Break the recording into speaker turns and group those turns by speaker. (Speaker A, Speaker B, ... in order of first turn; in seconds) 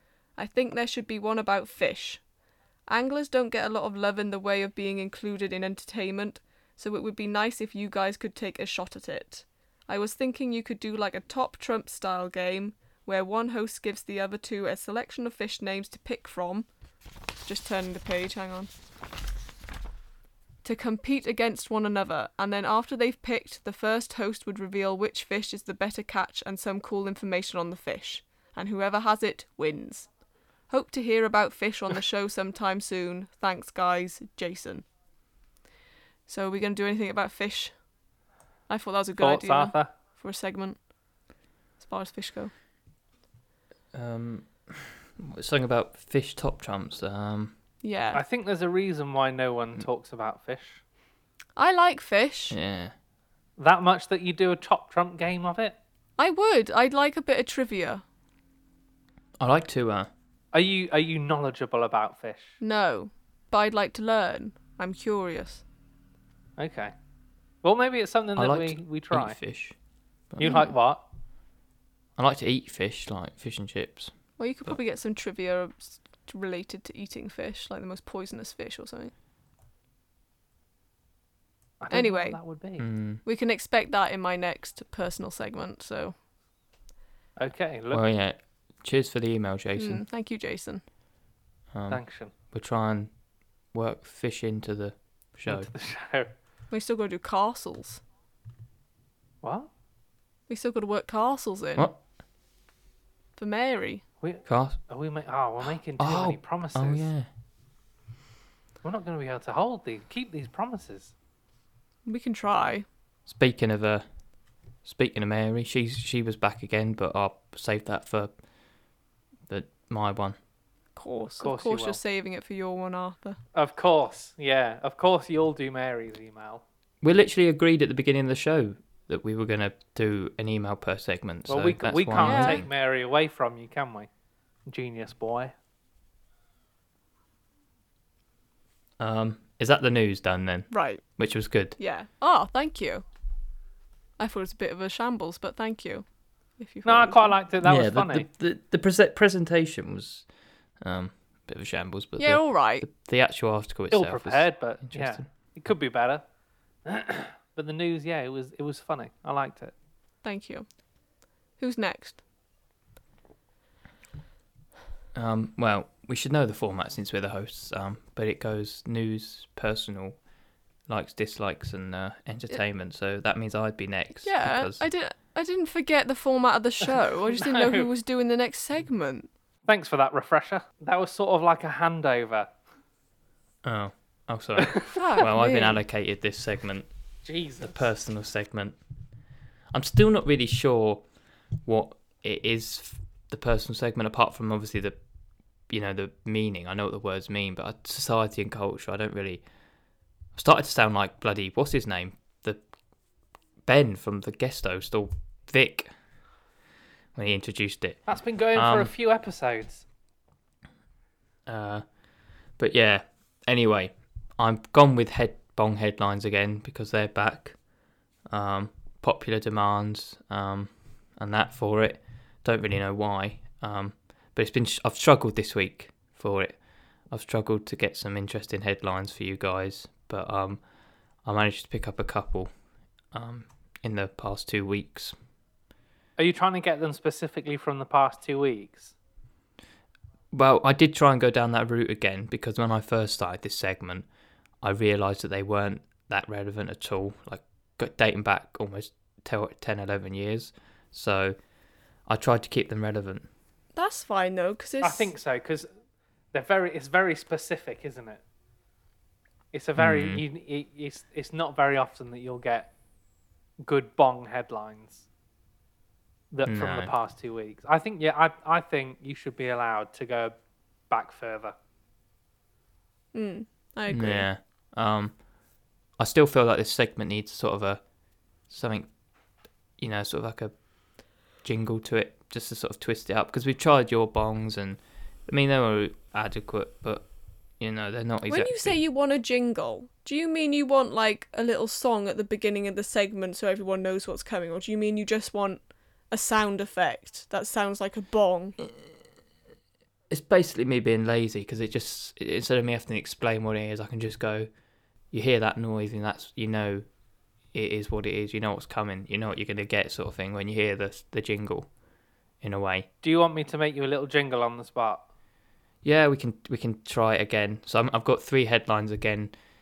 Speaker A: 0.4-2.2, 2.9-16.7, 17.4-18.7, 20.6-30.1, 30.7-34.9, 36.3-37.8, 38.7-40.8, 41.8-42.5, 47.8-48.2, 51.6-52.6, 56.2-58.0, 62.6-65.6, 70.4-70.7, 74.4-79.1, 81.9-82.4, 83.2-86.2, 89.8-90.8, 96.7-98.0, 100.5-101.9, 103.4-104.0, 112.1-112.9, 121.0-123.4, 132.2-132.6, 140.7-141.0, 141.8-143.1, 144.2-146.1, 146.6-147.4, 152.2-152.9, 160.2-160.7, 161.6-162.2, 174.2-179.3, 184.9-185.8, 253.8-255.1, 273.1-274.3, 288.3-298.6
Speaker B: 39.2-39.9, 48.1-50.8, 53.6-55.8, 60.5-62.6, 66.6-66.9, 67.6-69.4, 70.4-71.0, 81.8-82.9, 87.4-88.0, 91.9-92.3, 95.5-96.3, 99.4-99.7, 104.2-107.1, 108.8-111.1, 121.4-122.0, 123.5-126.6, 131.5-134.1, 134.7-135.5, 146.8-148.3, 153.9-156.2, 156.8-159.7, 177.3-177.9, 179.7-182.5, 184.6-185.0, 187.2-187.8, 208.1-209.8, 236.2-238.9, 254.8-255.7, 256.3-258.2, 259.5-262.7, 263.6-265.1, 266.3-270.4, 270.9-271.5, 313.0-315.0
Speaker C: 43.9-47.5, 52.5-52.9, 59.4-60.1, 68.4-69.8, 72.2-74.1, 82.8-83.2, 87.9-90.0, 91.7-93.1, 93.7-95.7, 104.5-104.8, 106.0-107.3, 113.3-114.0, 114.8-118.3, 119.5-120.4, 127.0-132.7, 139.0-141.8, 147.6-150.3, 150.8-155.3, 165.1-170.2, 170.9-174.8, 183.6-186.9, 187.6-188.8, 189.7-191.0, 191.7-195.0, 195.7-199.4, 200.3-202.6, 203.7-205.9, 207.2-208.0, 208.6-208.9, 211.5-211.8, 212.6-217.6, 218.3-226.6, 227.1-230.6, 231.2-232.5, 233.1-235.2, 240.3-244.1, 244.6-251.4, 252.1-253.3, 259.8-260.2, 266.5-266.9, 273.9-275.2, 276.0-277.8, 278.5-278.9, 279.8-280.5, 281.4-287.1, 287.6-288.8, 300.1-304.5, 305.1-306.9, 307.5-311.7, 312.4-312.9, 315.8-319.3